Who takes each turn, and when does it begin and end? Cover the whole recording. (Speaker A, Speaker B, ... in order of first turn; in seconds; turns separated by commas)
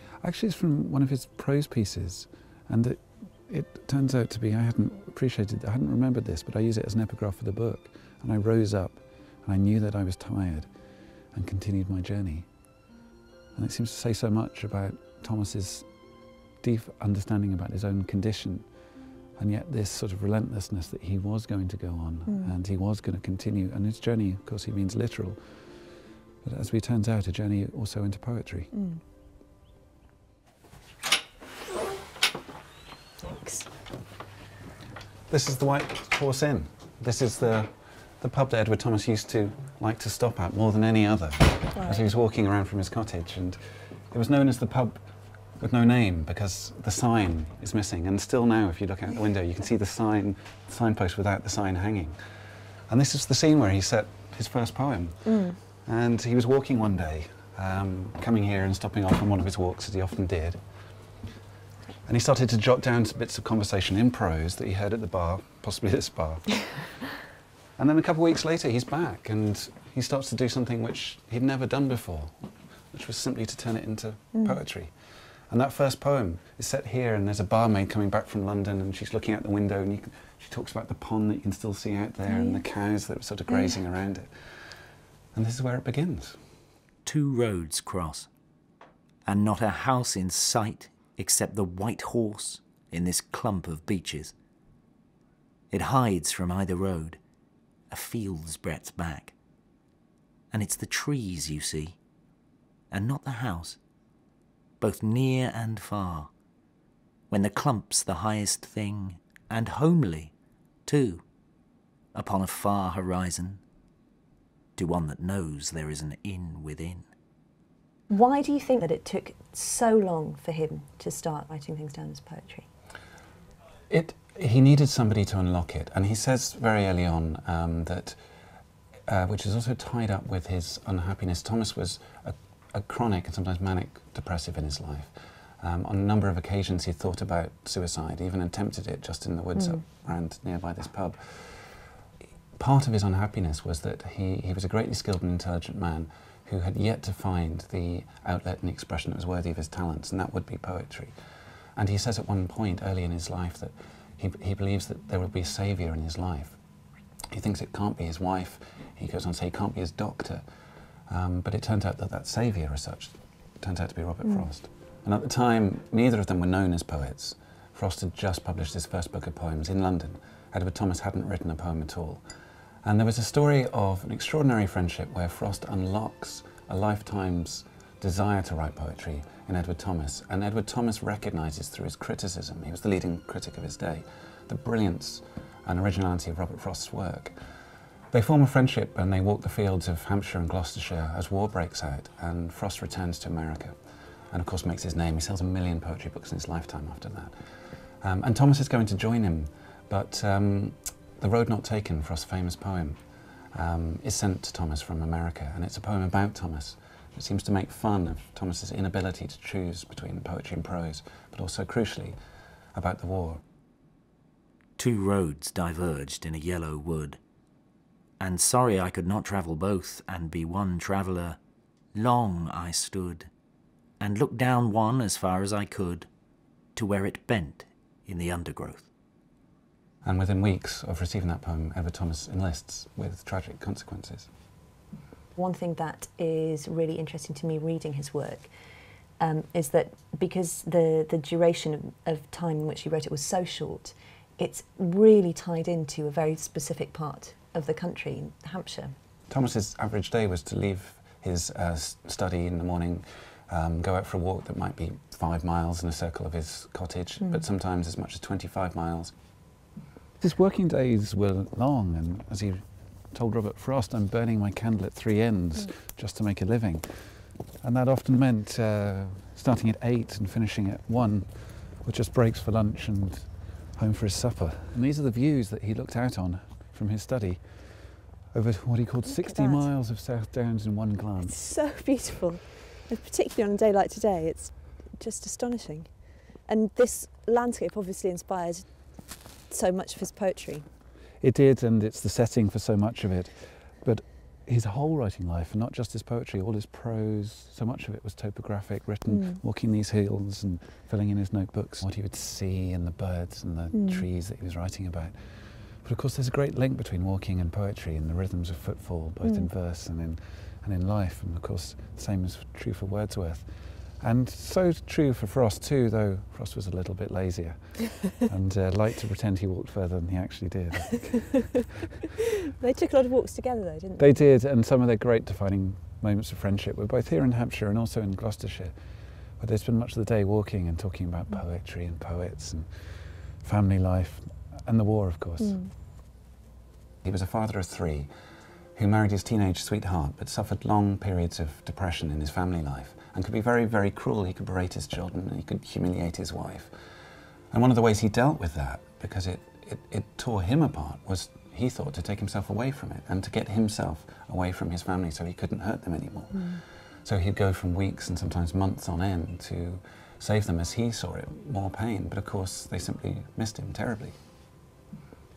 Speaker A: 0.2-10.7, Speaker A: 11.3-12.5, Speaker A: 13.6-15.9, Speaker A: 16.6-18.6, Speaker A: 19.4-25.4, Speaker A: 26.4-28.7, Speaker B: 28.7-29.0, Speaker B: 33.2-33.7, Speaker A: 35.3-43.6, Speaker B: 41.8-42.1, Speaker A: 44.1-45.0, Speaker A: 45.6-52.2, Speaker A: 52.9-60.6, Speaker B: 55.2-55.6, Speaker A: 62.1-66.8, Speaker A: 67.8-74.9, Speaker A: 75.5-84.3, Speaker B: 82.3-82.6, Speaker A: 85.3-86.4, Speaker C: 87.1-88.3, Speaker C: 89.2-94.3, Speaker C: 95.7-97.2, Speaker C: 97.9-99.3, Speaker C: 100.5-102.0, Speaker C: 102.9-103.8, Speaker C: 104.8-106.3, Speaker C: 107.3-110.3, Speaker C: 110.9-111.2, Speaker C: 112.2-113.6, Speaker C: 114.8-117.1, Speaker B: 118.1-122.7, Speaker A: 123.9-128.2, Speaker A: 129.1-141.7, Speaker B: 139.6-139.8, Speaker A: 142.6-151.1, Speaker A: 151.8-156.6, Speaker A: 157.3-160.4, Speaker A: 161.1-172.2, Speaker A: 172.8-187.3, Speaker A: 188.1-193.8, Speaker A: 194.3-197.3, Speaker A: 198.0-203.0, Speaker A: 203.5-212.2, Speaker A: 212.7-213.4, Speaker C: 214.8-217.2, Speaker C: 218.2-221.4, Speaker C: 221.9-223.3, Speaker C: 224.0-226.1, Speaker C: 226.8-228.9, Speaker A: 230.0-234.3, Speaker B: 235.4-238.5, Speaker B: 239.2-248.9, Speaker A: 249.3-259.1, Speaker A: 260.2-266.8, Speaker A: 267.6-271.3, Speaker A: 271.8-277.4, Speaker A: 278.3-281.4, Speaker B: 279.1-279.7, Speaker B: 281.2-285.9, Speaker B: 286.4-288.7, Speaker B: 289.5-290.6, Speaker A: 291.2-305.1, Speaker B: 299.1-299.4, Speaker B: 303.7-304.1, Speaker A: 305.8-313.5, Speaker B: 309.2-309.5, Speaker A: 314.0-321.4, Speaker B: 322.6-324.2, Speaker A: 324.0-328.7, Speaker A: 329.4-332.7, Speaker A: 333.4-335.6, Speaker B: 335.4-335.7, Speaker A: 337.0-338.1, Speaker A: 338.8-346.7, Speaker A: 347.5-364.1, Speaker B: 356.3-356.6